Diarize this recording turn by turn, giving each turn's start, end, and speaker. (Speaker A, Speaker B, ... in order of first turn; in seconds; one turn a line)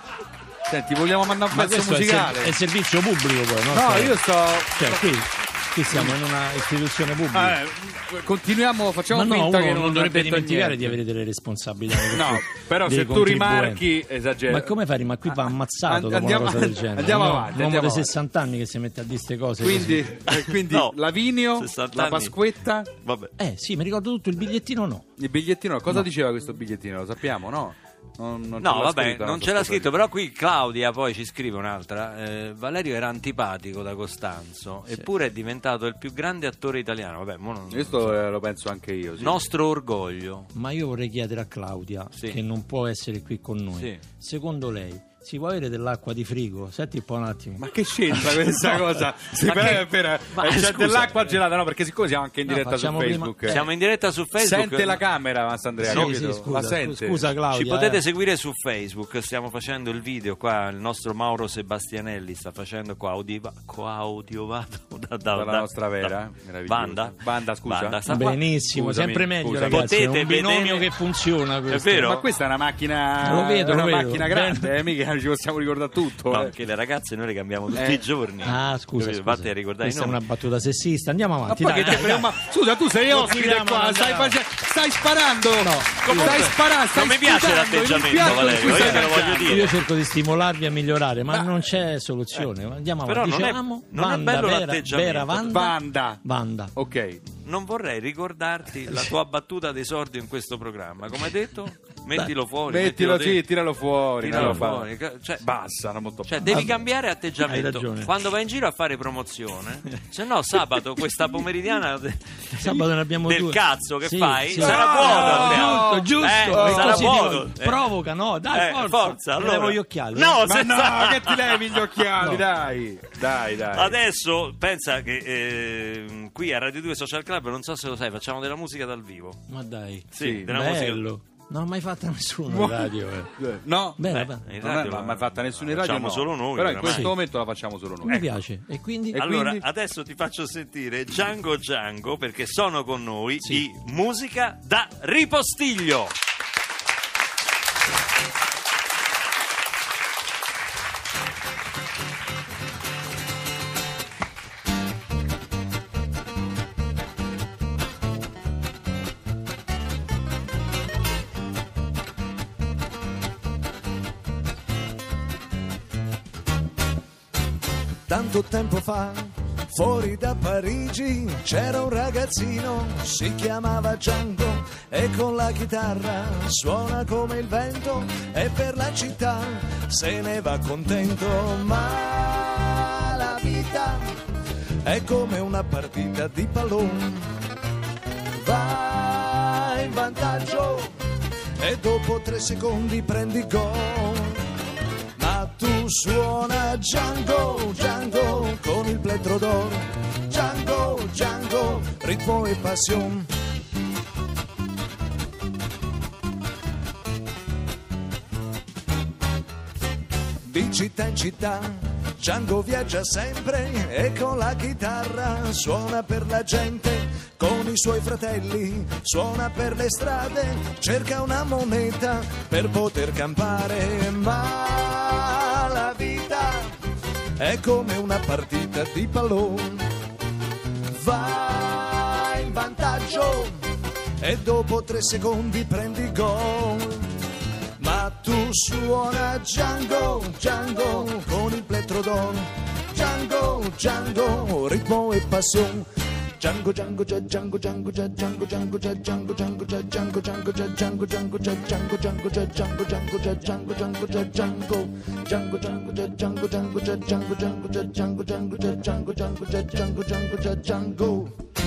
Speaker A: 0.7-2.5
Speaker B: 1.5-7.6
Speaker A: 3.7-5.1
Speaker A: 5.9-6.2
Speaker A: 7.3-11.0
Speaker B: 9.1-13.9
Speaker A: 12.1-14.7
Speaker B: 14.5-20.1
Speaker A: 15.3-18.1
Speaker A: 19.6-22.9
Speaker C: 20.3-21.0
Speaker C: 21.5-22.4
Speaker C: 23.0-23.3
Speaker B: 23.4-25.1
Speaker A: 25.2-29.9
Speaker C: 28.6-38.2
Speaker A: 37.7-39.4
Speaker C: 39.2-40.5
Speaker B: 40.5-47.6
Speaker C: 42.1-42.4
Speaker A: 47.6-53.6
Speaker C: 49.4-51.4
Speaker B: 52.5-53.6
Speaker C: 53.5-55.0
Speaker A: 54.4-57.3
Speaker C: 55.8-56.2
Speaker B: 55.8-58.0
Speaker C: 57.5-68.4
Speaker A: 65.3-69.9
Speaker B: 68.1-72.2
Speaker C: 69.6-70.9
Speaker C: 71.7-72.2
Speaker A: 71.9-76.5
Speaker B: 73.2-74.8
Speaker C: 76.3-80.2
Speaker A: 77.7-78.0
Speaker B: 78.4-82.3
Speaker A: 81.5-89.7
Speaker B: 83.1-84.4
Speaker B: 85.6-86.5
Speaker C: 86.0-89.8
Speaker B: 88.2-96.7
Speaker C: 93.0-95.6
Speaker A: 95.5-96.2
Speaker A: 96.7-97.2
Speaker C: 97.4-103.4
Speaker A: 102.7-104.8
Speaker C: 104.2-105.5
Speaker B: 104.3-104.7
Speaker A: 105.4-106.5
Speaker C: 106.2-117.8
Speaker B: 106.4-106.8
Speaker B: 107.4-108.1
Speaker B: 112.5-120.4
Speaker A: 114.6-117.1
Speaker C: 118.5-122.0
Speaker A: 120.4-124.0
Speaker C: 123.7-129.4
Speaker B: 129.5-133.4
Speaker C: 130.1-131.1
Speaker A: 130.2-130.5
Speaker A: 132.5-138.4
Speaker B: 134.0-134.4
Speaker C: 134.1-137.2
Speaker B: 136.8-137.1
Speaker B: 138.0-139.2
Speaker A: 139.1-139.6
Speaker C: 139.1-146.1
Speaker D: 168.1-184.1
Speaker D: 184.8-187.3
Speaker D: 188.4-190.9
Speaker D: 191.6-194.4
Speaker D: 195.2-203.3
Speaker D: 210.4-226.7
Speaker D: 227.4-229.9
Speaker D: 230.9-233.6
Speaker D: 234.2-237.1
Speaker D: 237.8-245.9
Speaker D: 246.4-261.3